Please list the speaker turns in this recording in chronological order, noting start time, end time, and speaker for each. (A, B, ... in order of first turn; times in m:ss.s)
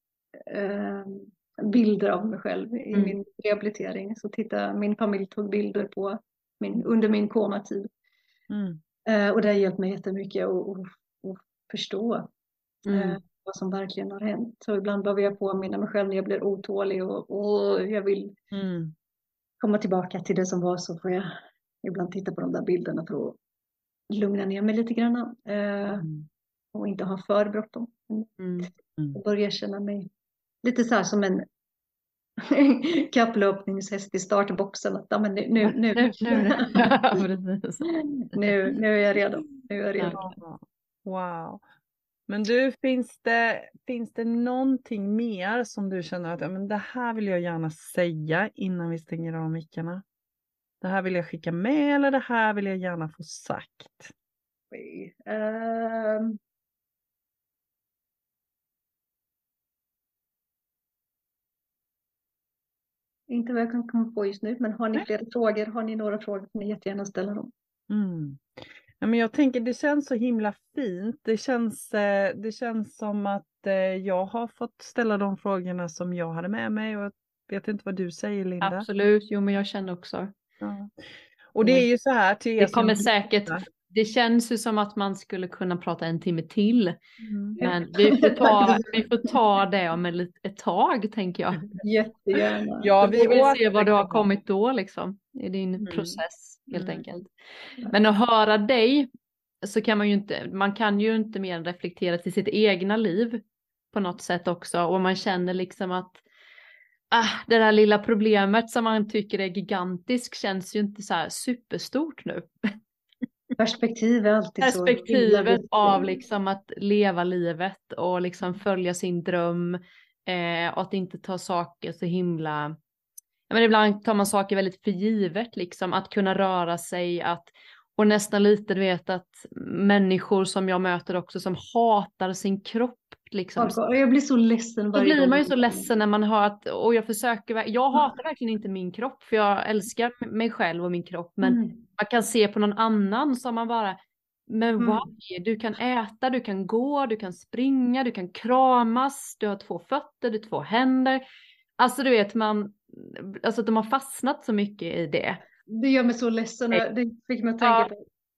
0:00.4-0:07.9 A
0:02.9-0:03.2 B
0:08.5-0:08.8 C
0:09.0-0:12.3 A
0:12.9-0:13.2 B
0:12.9-0:18.4 A
0:18.5-0:18.9 C
0:19.6-0:21.3 A
0:21.8-0:23.4 A
0:24.1-0:26.0 A
0:25.9-0:26.3 C
0:26.7-0:30.1 A
0:28.4-0:28.7 B
0:30.6-0:31.4 A
0:32.4-0:36.9 A
0:35.6-0:37.9 B
0:37.9-0:40.3 A
0:40.1-0:41.6 C
0:42.3-0:50.0 C
0:50.8-0:54.1 C
0:54.7-0:56.4 A
1:03.3-1:07.5 A
1:07.9-1:18.8 C
1:18.6-1:20.3 B
1:20.6-1:23.6 C
1:22.6-1:27.0 B
1:27.2-1:27.6 C
1:27.6-1:31.8 B
1:27.6-1:28.8 A
1:31.8-1:33.2 A
1:32.8-1:34.3 C
1:33.0-1:37.3 B
1:35.8-1:36.2 C
1:36.7-1:37.0 C
1:37.9-1:39.1 B
1:39.6-1:46.2 B
1:47.1-1:52.5 B
1:53.6-1:56.2 A
1:54.6-2:02.7 B
2:03.5-2:13.8 B
2:13.6-2:15.9 A
2:14.9-2:31.2 B
2:21.4-2:21.8 A
2:24.8-2:25.1 A
2:31.8-2:35.4 B
2:35.7-2:38.0 A
2:37.6-2:37.9 B